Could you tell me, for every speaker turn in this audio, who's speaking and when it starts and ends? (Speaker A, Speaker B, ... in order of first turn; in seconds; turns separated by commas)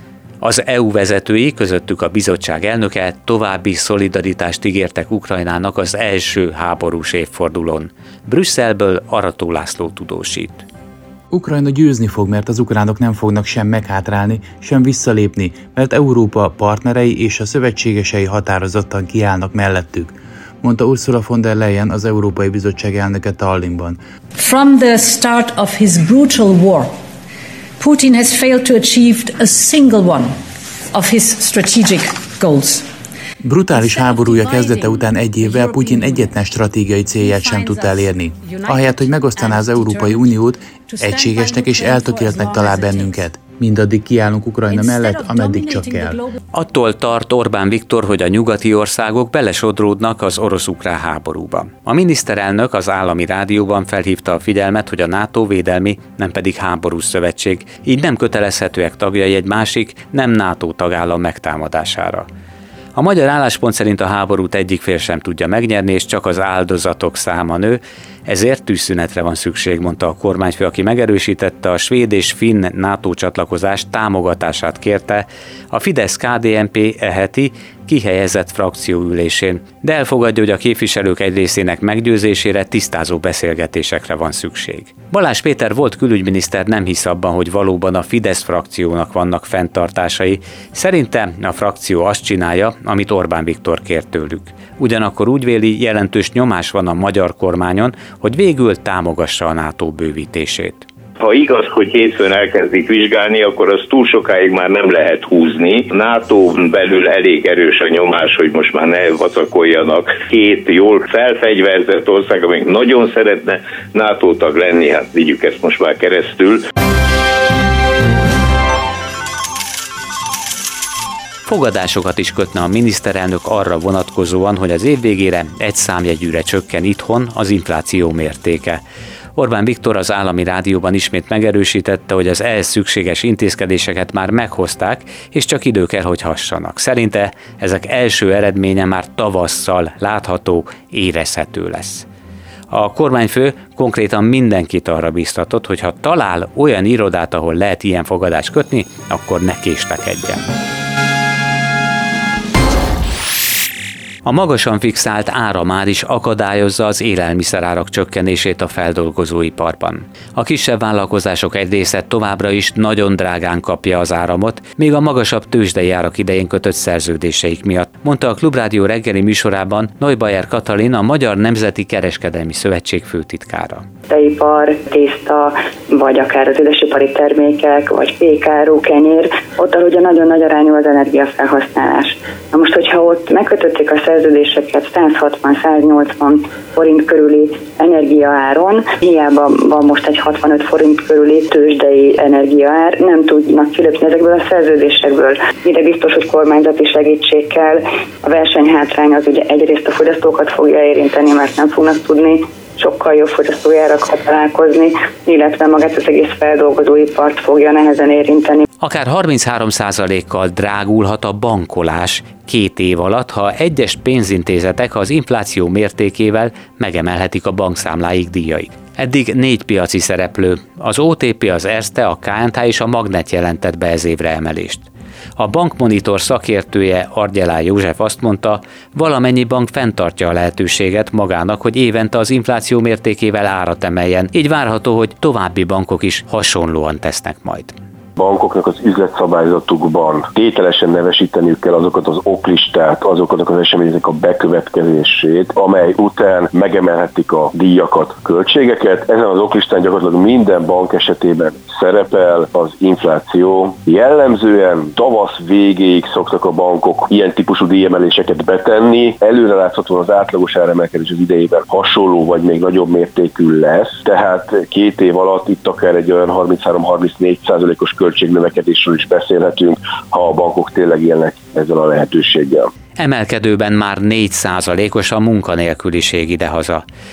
Speaker A: 0.4-10.7, Speaker B: 11.3-24.0, Speaker C: 24.4-26.9, Speaker C: 27.8-30.4, Speaker C: 30.9-32.9, Speaker B: 33.4-46.2, Speaker C: 33.7-36.4, Speaker C: 37.2-43.2, Speaker C: 44.7-46.4, Speaker A: 46.5-62.3, Speaker A: 63.0-100.9, Speaker D: 101.2-116.7, Speaker A: 121.5-128.8, Speaker A: 129.3-142.1, Speaker A: 142.7-150.4, Speaker A: 154.2-173.8, Speaker E: 174.1-208.7, Speaker A: 208.8-237.8, Speaker F: 238.2-272.7, Speaker A: 273.0-276.9